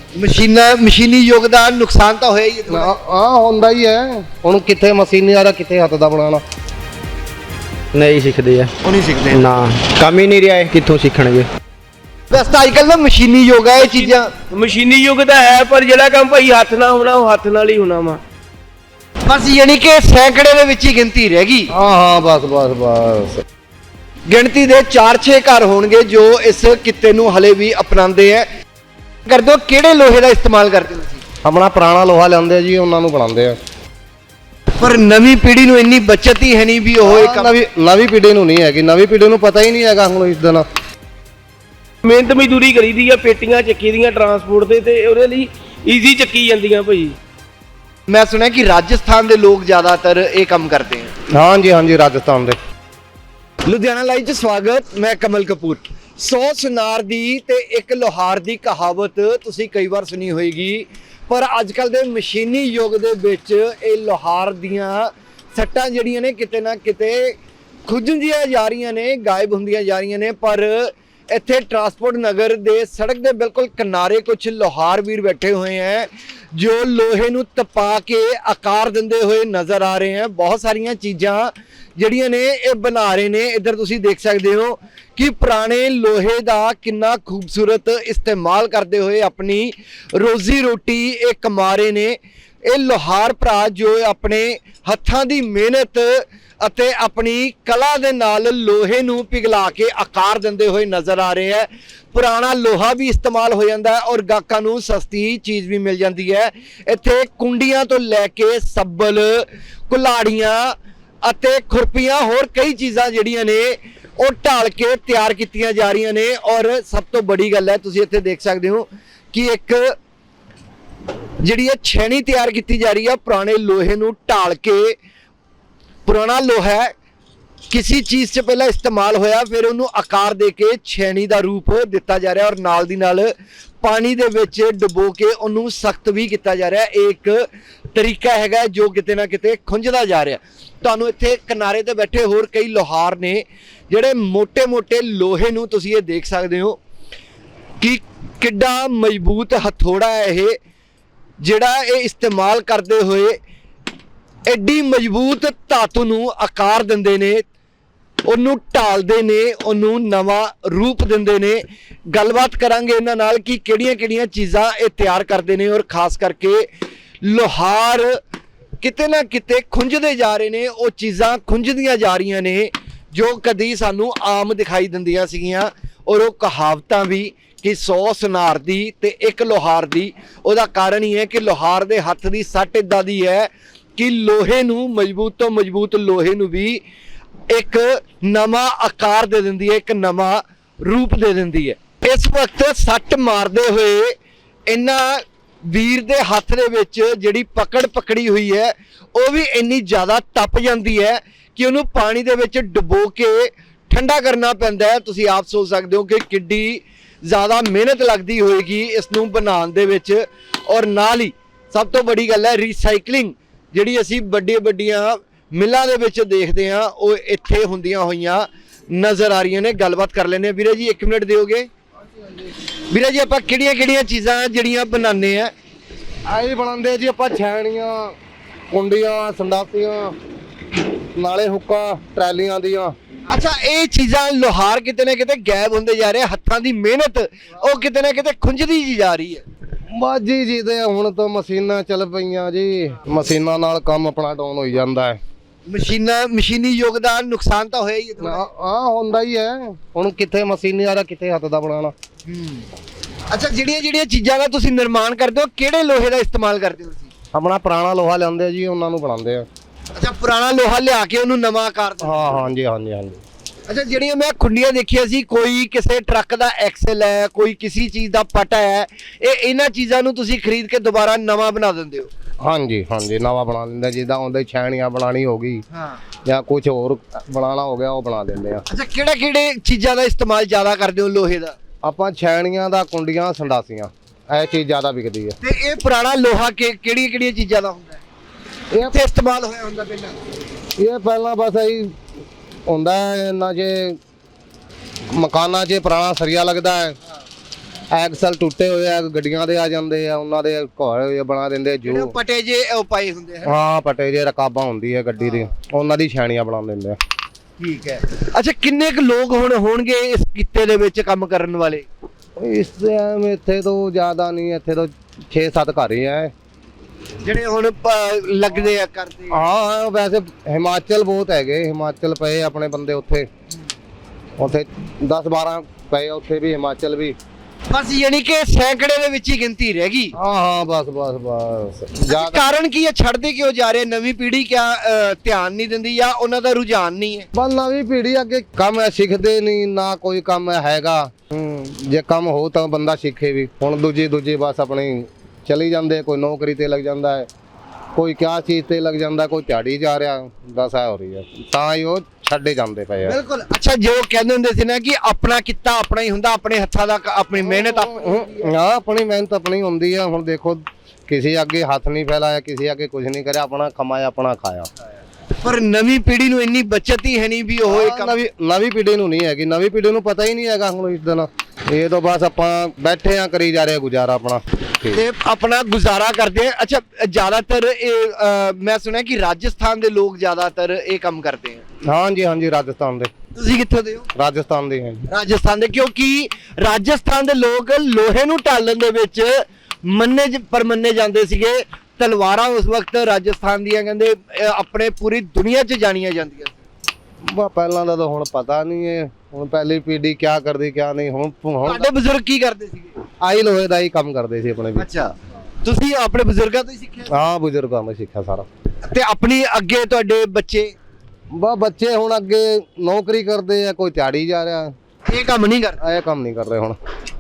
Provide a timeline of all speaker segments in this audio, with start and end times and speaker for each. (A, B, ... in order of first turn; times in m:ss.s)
0:00.2-0:02.9 A
0:02.7-0:06.4 B
0:07.9-0:08.7 C
0:08.8-0:09.4 A
0:09.3-0:11.5 C
0:12.3-0:14.3 A
0:13.8-0:18.2 D
0:19.2-0:21.7 A
0:21.7-0:23.4 B
0:24.3-0:28.5 A
0:29.3-0:31.2 A
0:31.4-0:33.6 B
0:34.8-0:37.5 A
0:37.0-0:40.6 B
0:42.0-0:47.2 D
0:48.1-0:51.1 A
0:51.3-0:52.6 B
0:53.7-1:07.4 A
1:07.9-1:32.2 A
1:32.7-2:00.0 A
2:01.4-2:05.0 A
2:06.1-2:06.9 A
2:07.7-2:26.8 A
2:27.8-2:30.6 A
2:31.4-2:33.4 A
2:34.5-2:37.4 A
2:38.3-2:46.7 A
2:47.2-2:48.2 A
2:48.8-3:06.8 A
3:07.5-3:14.2 A
3:14.7-3:41.7 A
3:42.9-3:45.5 A
3:46.3-3:48.2 B
3:48.7-3:50.2 B
3:51.2-3:53.0 B
3:53.3-3:59.4 A
3:59.9-4:05.2 B
4:05.7-4:08.5 A
4:08.2-4:11.9 B
4:12.3-4:12.7 A
4:13.3-4:17.1 A
4:17.3-4:19.5 B
4:20.0-4:22.5 A
4:22.0-4:23.2 B
4:23.7-4:32.1 A
4:32.4-4:35.6 B
4:35.7-4:36.0 A
4:36.2-4:38.6 B
4:38.7-4:41.6 A
4:41.8-4:45.4 B
4:45.4-4:48.0 A
4:48.9-4:50.2 A
4:50.8-4:52.0 B
4:52.7-4:54.0 B
4:55.1-4:57.0 B
4:57.9-5:02.1 B
5:01.9-5:03.5 A
5:03.5-5:07.0 B
5:05.2-5:05.5 A
5:07.6-5:11.9 A
5:12.4-5:16.3 B
5:17.2-5:19.4 A
5:19.3-5:23.3 B
5:24.4-5:27.2 B
5:27.7-5:30.1 A
5:30.1-5:32.4 B
5:32.0-5:37.3 A
5:37.3-5:47.3 B
5:48.0-5:53.2 B
5:53.0-5:58.3 A
5:57.4-6:04.7 B
6:05.4-6:08.2 A
6:07.6-6:15.0 B
6:14.9-6:21.7 A
6:21.9-6:23.1 B
6:23.4-6:24.1 A
6:24.2-6:25.1 B
6:25.1-6:36.6 A
6:37.3-6:41.9 B
6:41.6-6:43.0 A
6:43.2-6:44.9 B
6:44.8-6:47.1 A
6:47.1-6:48.5 B
6:48.8-6:50.8 A
6:51.4-6:54.7 B
6:55.1-6:55.8 A
6:55.8-6:56.8 B